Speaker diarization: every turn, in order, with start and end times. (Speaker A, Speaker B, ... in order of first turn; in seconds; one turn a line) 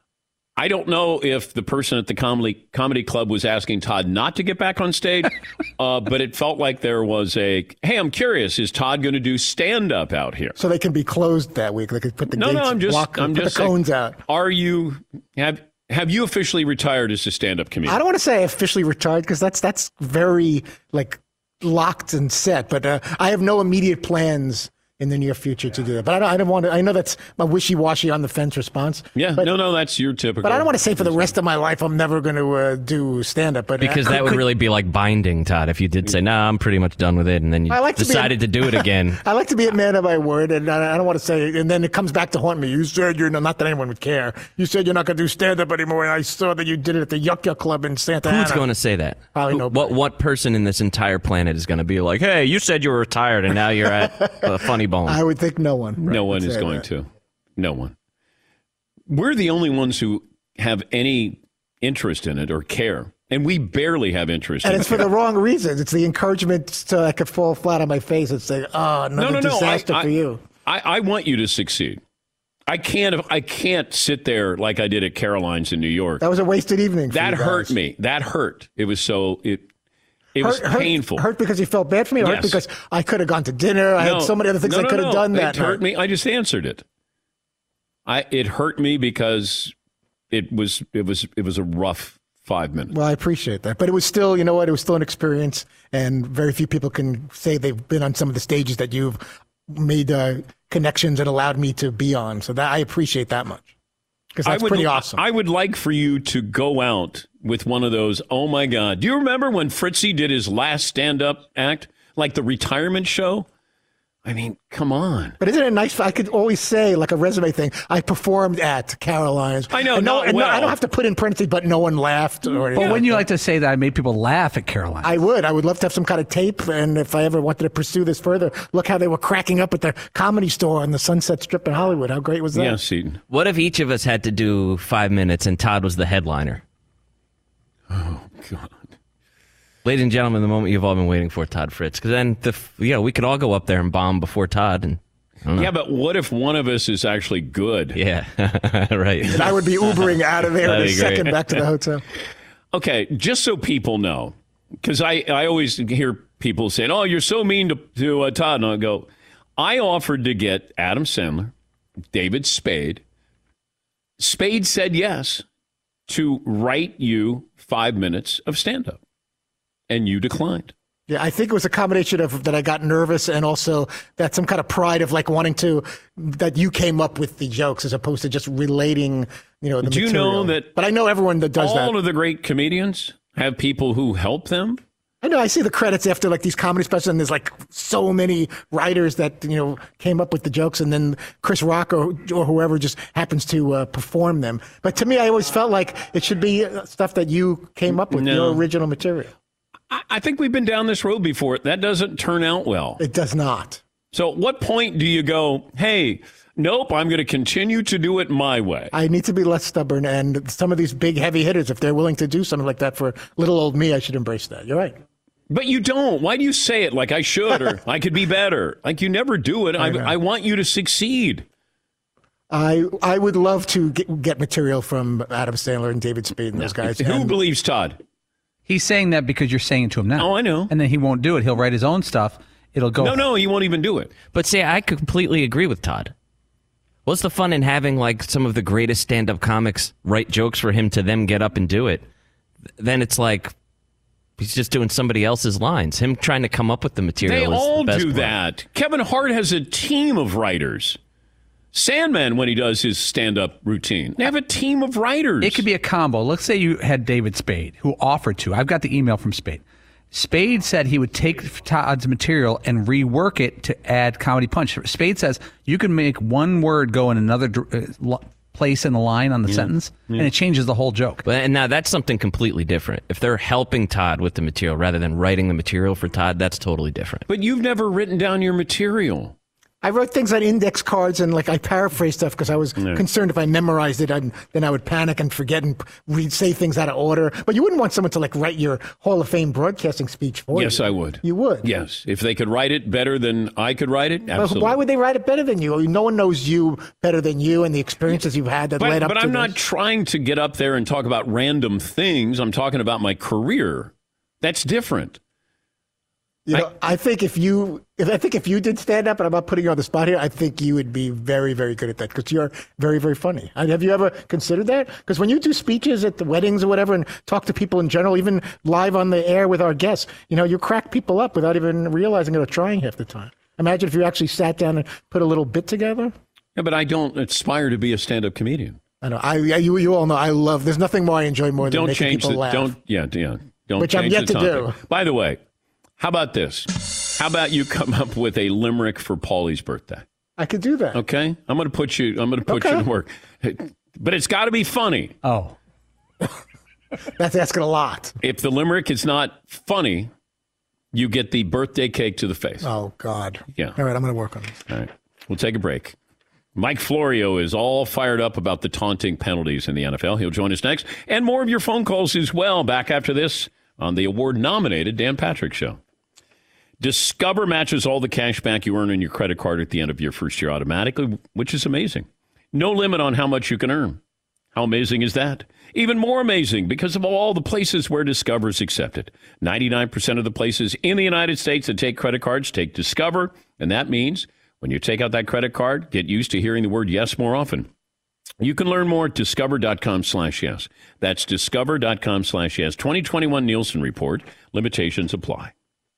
Speaker A: 0.6-10.6
Speaker B: 10.6-14.2
Speaker A: 12.3-13.8
Speaker A: 14.3-18.0
Speaker B: 17.9-29.5
Speaker A: 29.1-31.4
Speaker B: 30.4-34.5
Speaker C: 33.8-39.2
Speaker B: 37.7-48.7
Speaker C: 48.2-55.2
Speaker B: 49.3-50.0
Speaker B: 54.2-54.5
Speaker B: 55.1-56.8
Speaker A: 56.1-57.9
Speaker A: 59.1-65.1
Speaker B: 64.6-70.4
Speaker A: 69.2-70.1
Speaker A: 70.6-72.0
Speaker A: 72.7-76.2
Speaker B: 76.2-77.7
Speaker A: 77.1-79.7
Speaker A: 80.3-81.2
Speaker B: 80.4-85.8
Speaker A: 82.2-82.6
Speaker A: 84.0-86.8
Speaker A: 88.1-89.7
Speaker A: 90.3-93.0
Speaker B: 92.9-103.7
Speaker B: 104.3-105.2
Speaker A: 104.4-113.5
Speaker A: 114.2-115.4
Speaker B: 115.4-123.2
Speaker A: 119.7-120.8
Speaker D: 122.8-125.2
Speaker A: 122.8-123.0
Speaker B: 125.0-132.8
Speaker A: 132.5-133.2
Speaker C: 133.3-136.6
Speaker A: 137.9-138.8
Speaker C: 139.8-145.7
Speaker A: 145.6-148.0
Speaker C: 147.9-149.5
Speaker B: 149.3-152.0
Speaker C: 150.6-151.3
Speaker A: 152.7-161.5
Speaker A: 162.1-163.0
Speaker A: 164.2-165.4
Speaker A: 166.1-169.0
Speaker A: 169.9-170.7
Speaker B: 171.1-182.0
Speaker A: 179.8-180.7
Speaker A: 181.6-184.8
Speaker B: 185.2-199.3
Speaker A: 198.1-198.6
Speaker A: 199.9-203.0
Speaker B: 203.0-203.8
Speaker A: 204.1-208.9
Speaker B: 208.9-215.0
Speaker A: 215.5-221.4
Speaker B: 219.8-220.2
Speaker B: 222.5-227.4
Speaker A: 226.6-228.0
Speaker D: 228.7-233.2
Speaker A: 230.2-230.7
Speaker A: 233.0-234.1
Speaker C: 234.3-236.1
Speaker C: 237.1-242.1
Speaker C: 242.8-243.5
Speaker C: 244.4-248.4
Speaker A: 247.2-251.0
Speaker A: 251.7-255.6
Speaker D: 255.4-271.2
Speaker A: 269.5-270.3
Speaker C: 271.2-277.2
Speaker A: 277.3-279.3
Speaker B: 279.8-291.7
Speaker A: 282.8-283.0
Speaker A: 290.5-294.8
Speaker B: 294.3-299.6
Speaker A: 298.8-305.2
Speaker B: 306.5-326.1
Speaker A: 326.6-328.8
Speaker B: 329.0-332.7
Speaker A: 331.6-335.4
Speaker B: 333.8-334.8
Speaker A: 336.0-340.1
Speaker B: 340.4-341.0
Speaker A: 340.9-345.2
Speaker B: 342.5-342.8
Speaker D: 345.2-345.6
Speaker B: 347.2-348.1
Speaker A: 348.2-350.1
Speaker A: 350.9-352.7
Speaker B: 352.6-354.5
Speaker A: 354.7-356.0
Speaker A: 356.6-365.8
Speaker A: 366.8-374.0
Speaker A: 374.5-387.7
Speaker A: 388.4-395.5